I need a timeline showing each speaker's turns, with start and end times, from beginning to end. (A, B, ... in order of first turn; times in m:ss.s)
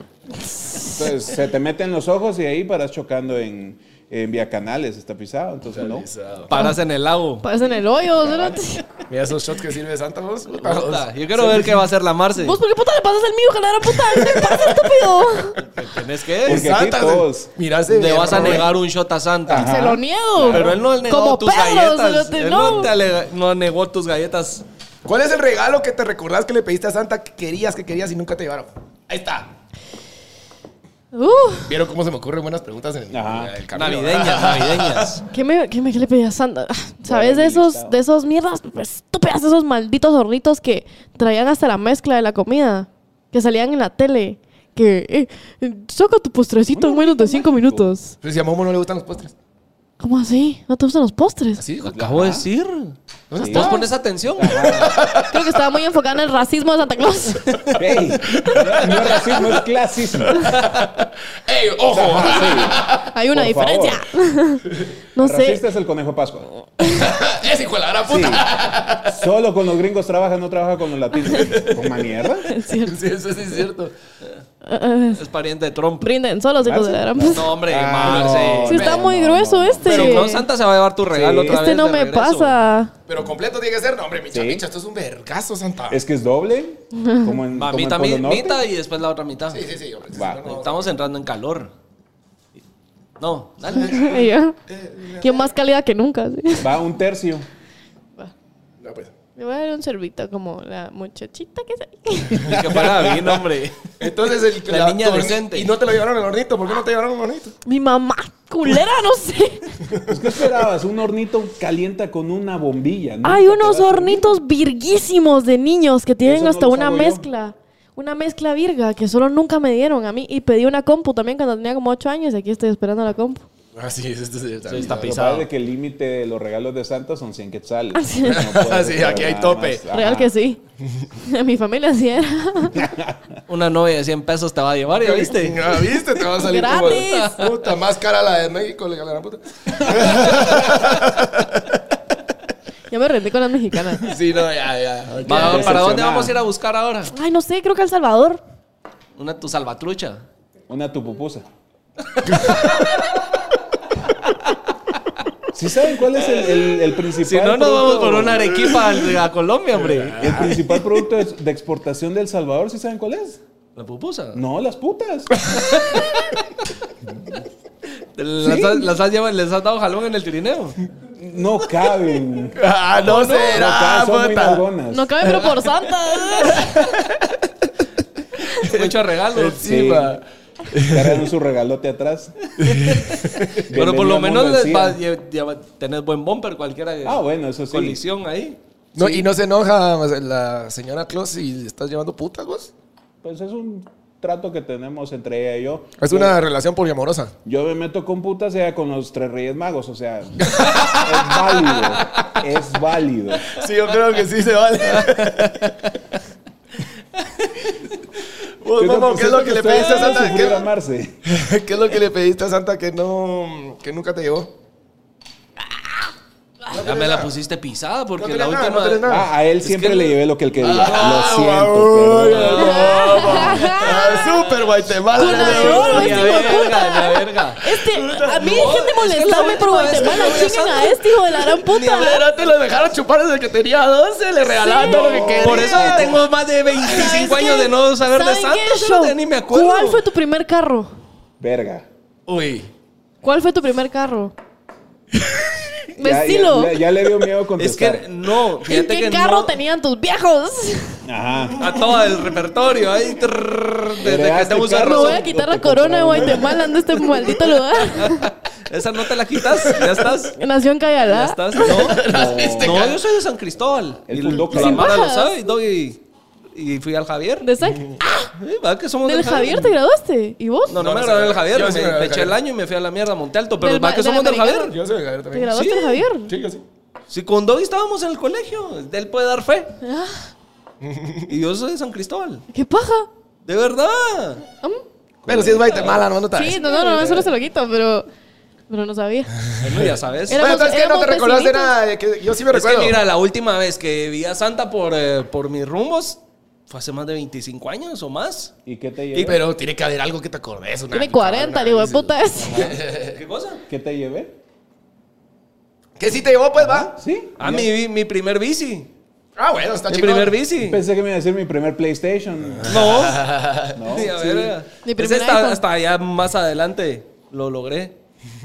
0:00.7-0:06.1 A
0:05.7-0:06.5 B
0:06.5-0:07.4 C
0:06.5-0:06.8 D
0:07.4-0:08.8 D
0:09.1-0:11.9 B
0:10.5-0:12.6 C
0:12.4-0:15.6 D
0:14.0-0:14.9 B
0:15.6-0:16.7 C
0:16.4-0:18.7 B
0:16.4-0:17.5 A
0:17.9-0:19.8 C
0:19.5-0:20.8 A
0:19.5-0:22.9 D
0:20.5-0:24.6 C
0:25.0-0:29.5 B
0:31.1-0:31.7 D
0:31.7-0:35.1 B
0:33.1-0:33.5 A
0:33.7-0:35.2 C
0:35.3-0:48.2 D
0:37.0-0:38.0 A
0:46.7-0:47.9 A
0:48.2-0:49.3 B
0:50.0-0:51.6 D
0:51.6-0:52.1 B
0:51.8-0:54.8 C
0:51.9-0:52.4 A
0:53.3-0:53.8 B
0:53.4-0:53.8 A
0:54.4-0:55.0 A
0:54.6-0:55.4 B
0:55.3-0:57.8 D
0:57.8-1:00.5 A
0:58.3-0:59.6 B
1:00.3-1:00.9 B
1:00.6-1:00.8 C
1:01.4-1:03.1 B
1:01.9-1:04.0 A
1:03.0-1:05.6 D
1:05.2-1:06.5 A
1:06.8-1:07.1 D
1:06.8-1:09.2 B
1:08.0-1:08.5 A
1:09.0-1:12.5 A
1:11.4-1:12.0 B
1:12.4-1:13.0 D
1:12.7-1:13.9 B
1:14.6-1:15.2 D
1:15.2-1:16.1 C
1:16.0-1:17.5 D
1:16.6-1:20.0 A
1:17.3-1:18.9 C
1:18.0-1:19.0 B
1:18.6-1:20.5 D
1:19.8-1:22.6 C
1:19.8-1:20.3 B
1:21.1-1:21.6 A
1:21.4-1:22.9 D
1:23.1-1:26.0 B
1:24.3-1:24.6 A
1:25.9-1:28.6 A
1:26.9-1:27.4 D
1:27.5-1:29.6 C
1:29.5-1:31.0 B
1:30.1-1:30.5 A
1:30.4-1:31.7 C
1:33.2-1:34.1 C
1:33.8-1:34.6 D
1:34.7-1:35.4 B
1:35.2-1:36.7 D
1:36.6-1:37.4 A
1:38.8-1:39.1 B
1:39.4-1:42.6 D
1:42.3-1:43.4 A
1:42.4-1:44.1 C
1:44.0-1:47.6 B
1:44.6-1:45.7 C
1:47.6-1:49.7 D
1:49.9-1:50.2 B
1:50.1-1:54.3 A
1:53.2-2:03.4 D
1:56.2-1:57.3 A
2:03.7-2:05.2 B
2:04.6-2:05.5 C
2:04.8-2:10.3 A
2:07.9-2:08.4 D
2:08.2-2:09.8 B
2:09.9-2:10.6 D
2:11.2-2:12.8 D
2:12.7-2:13.4 A
2:13.5-2:15.9 C
2:15.0-2:21.6 B
2:16.3-2:17.5 D
2:17.0-2:17.3 C
2:22.9-2:24.1 D
2:24.0-2:25.8 B
2:25.2-2:27.1 C
2:25.3-2:26.4 A
2:27.1-2:28.4 D
2:29.2-2:30.2 C
2:30.7-2:31.4 A
2:32.3-2:32.8 B
2:32.3-2:32.9 C
2:35.5-2:38.7 A
2:37.2-2:40.5 C
2:39.7-2:40.7 B
2:40.2-2:43.4 A
2:43.8-2:44.4 C
2:44.3-2:45.3 A
2:45.4-2:46.0 B
2:45.7-2:46.2 C
2:48.1-2:50.8 C
2:51.2-2:52.6 A
2:52.5-2:54.6 B
2:53.1-2:55.1 A
2:54.9-2:56.9 D
2:58.5-3:01.2 B
2:58.5-2:59.8 C
2:59.6-3:00.2 A
3:00.8-3:02.3 A
3:02.6-3:03.6 B
3:02.6-3:08.6 C
3:03.7-3:05.0 A
3:07.0-3:08.0 A
3:08.9-3:12.7 B
3:09.0-3:09.2 A
3:13.2-3:16.4 A
3:16.0-3:17.3 B
3:17.4-3:23.5 A
3:20.4-3:22.0 B
3:23.5-3:25.7 B
3:28.6-3:30.6 B
3:28.8-3:31.2 A
3:31.2-3:34.5 B
3:36.7-3:37.3 B
3:36.7-3:39.1 C
3:38.2-3:39.3 B
3:39.0-3:42.8 A
3:39.6-3:41.4 C
3:40.6-3:46.6 B
3:42.2-3:47.6 C
3:42.6-3:44.4 D
3:45.1-3:52.2 D
3:47.9-3:48.6 B
3:48.4-3:52.2 C
3:49.9-3:50.5 B
3:51.9-3:56.2 B
3:54.4-3:56.1 D
3:54.8-3:56.1 A
3:55.2-4:00.0 C
3:56.8-4:00.9 D
4:01.4-4:01.8 A
4:02.2-4:02.7 B
4:03.2-4:04.3 D
4:06.0-4:06.8 D
4:06.0-4:08.1 A
4:07.6-4:09.5 C
4:08.6-4:11.0 D
4:11.0-4:11.7 A
4:11.6-4:15.3 C
4:14.0-4:16.7 A
4:14.8-4:18.3 D
4:17.8-4:20.3 C
4:19.5-4:20.1 B
4:20.3-4:21.8 D
4:21.1-4:26.0 C
4:21.5-4:23.0 B
4:22.0-4:22.9 A
4:24.1-4:25.0 A
4:24.3-4:25.4 D
4:26.5-4:27.5 C
4:27.4-4:28.3 D
4:27.6-4:28.0 B
4:28.3-4:29.7 C
4:29.0-4:30.8 D
4:30.7-4:34.7 C
4:30.8-4:32.4 B
4:33.6-4:34.7 D
4:34.7-4:35.6 B
4:35.3-4:36.3 D
4:35.5-4:36.0 C
4:36.3-4:36.6 B
4:37.1-4:39.7 C
4:39.8-4:40.3 D
4:40.8-4:41.3 B
4:41.3-4:42.4 C
4:42.5-4:43.1 D
4:43.4-4:44.4 C
4:45.2-4:46.0 A
4:45.3-4:47.1 B
4:45.6-4:46.0 C
4:46.3-4:48.1 D
4:46.6-4:47.2 C
4:48.7-4:49.3 D
4:49.6-4:50.5 C
4:49.7-4:53.0 B
4:50.3-4:51.8 D
4:52.5-4:58.5 C
4:58.6-4:59.4 A
4:59.2-5:03.2 B
5:00.9-5:02.8 D
5:03.0-5:03.6 C
5:03.7-5:04.3 A
5:06.0-5:06.9 B
5:06.6-5:07.7 A
5:07.4-5:08.9 C
5:09.4-5:10.4 B
5:09.9-5:10.8 C
5:10.6-5:12.8 A
5:12.6-5:13.8 B
5:12.6-5:13.3 C
5:13.7-5:14.5 A
5:13.9-5:17.9 C
5:14.8-5:15.6 D